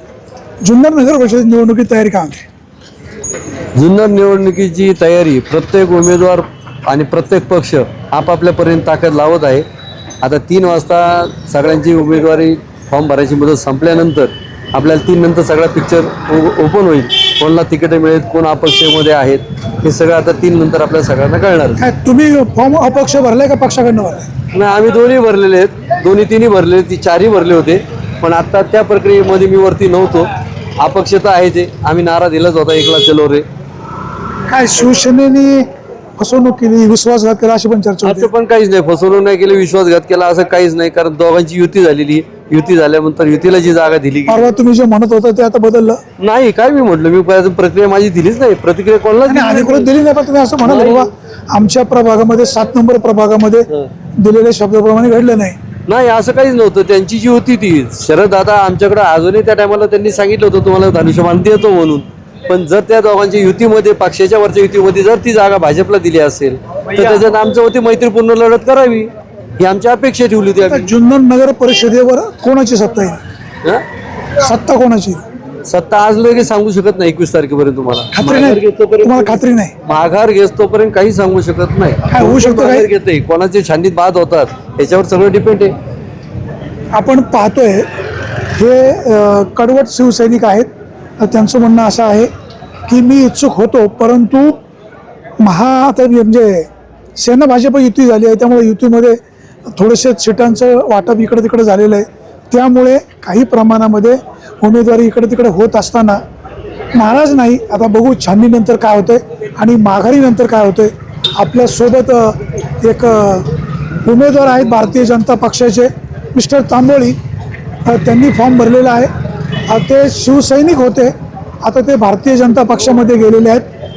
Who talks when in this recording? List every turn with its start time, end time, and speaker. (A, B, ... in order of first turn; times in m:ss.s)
0:00.6-0:02.4 A
0:03.8-0:09.6 B
0:10.2-0:21.8 B
0:21.8-0:24.3 A
0:24.5-0:33.4 B
0:34.5-0:38.3 A
0:38.0-0:44.5 B
0:44.3-0:46.0 A
0:46.2-0:49.9 B
0:49.2-0:55.6 A
0:50.6-0:51.1 B
0:55.9-1:10.9 B
1:10.7-1:13.2 A
1:14.4-1:15.2 A
1:15.6-1:25.7 B
1:18.1-1:19.7 A
1:22.1-1:22.9 A
1:26.9-1:27.9 A
1:28.5-1:30.7 A
1:31.2-1:32.3 A
1:32.9-1:34.6 A
1:35.4-1:46.2 A
1:46.9-1:53.5 A
1:54.0-1:57.2 A
1:57.8-1:59.1 A
1:59.7-2:03.6 A